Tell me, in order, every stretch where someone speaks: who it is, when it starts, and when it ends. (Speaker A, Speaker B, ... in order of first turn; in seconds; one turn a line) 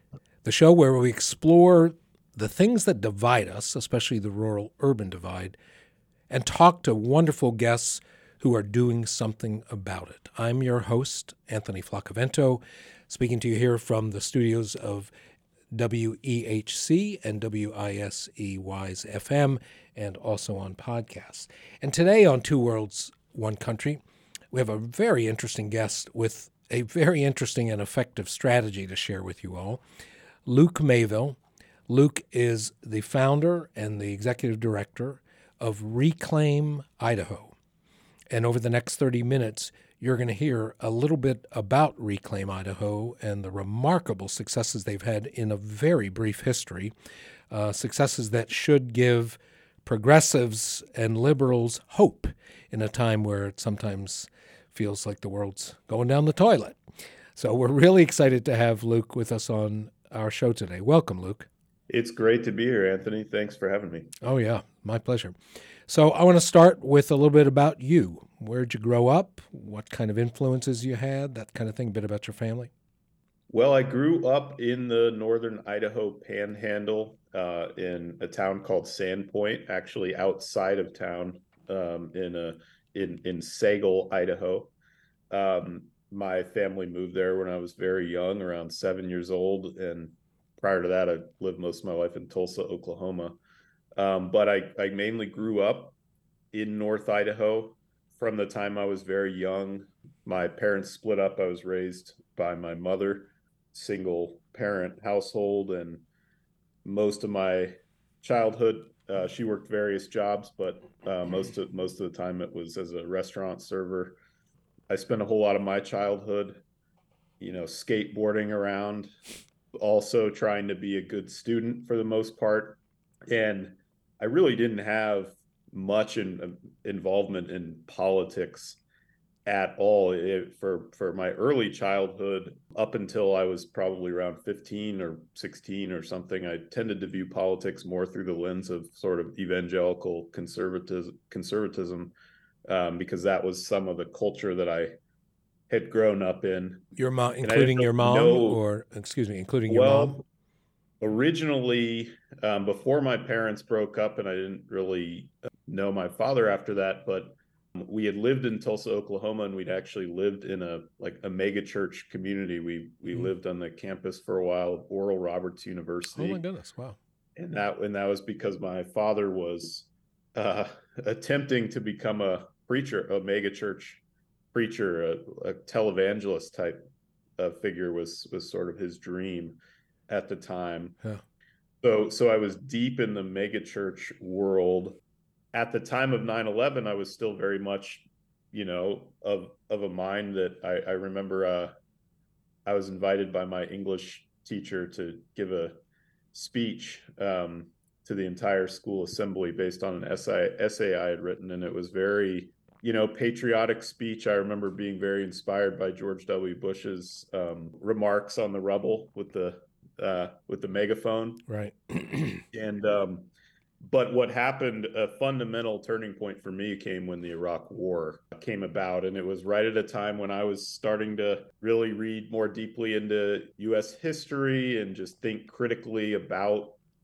Speaker A: 0.4-5.6
Speaker A: 6.3-15.1
Speaker A: 15.7-24.0
Speaker A: 24.5-29.8
Speaker A: 30.4-31.4
Speaker A: 31.9-37.5
Speaker A: 38.3-46.9
Speaker A: 47.5-56.8
Speaker A: 57.4-61.5
Speaker B: 61.9-64.1
Speaker A: 64.2-65.3
Speaker A: 65.9-72.7
Speaker B: 73.5-84.7
Speaker B: 85.3-93.4
Speaker B: 94.0-96.0
Speaker B: 96.5-106.0
Speaker B: 106.8-114.2
Speaker B: 114.9-116.6
Speaker B: 117.4-119.1
Speaker B: 119.8-128.8
Speaker B: 129.5-142.2
Speaker B: 142.7-144.9
Speaker B: 145.7-146.9
Speaker A: 147.0-150.2
Speaker B: 147.4-148.6
Speaker B: 149.7-150.2
Speaker B: 151.0-166.4
Speaker A: 166.1-167.0
Speaker B: 167.4-174.0
Speaker B: 174.5-176.8
Speaker B: 177.4-181.0
Speaker B: 181.8-185.0
Speaker B: 185.5-191.7
Speaker B: 192.7-195.8
Speaker B: 196.3-211.4
Speaker A: 211.5-212.4
Speaker B: 212.5-213.3
Speaker B: 213.8-226.8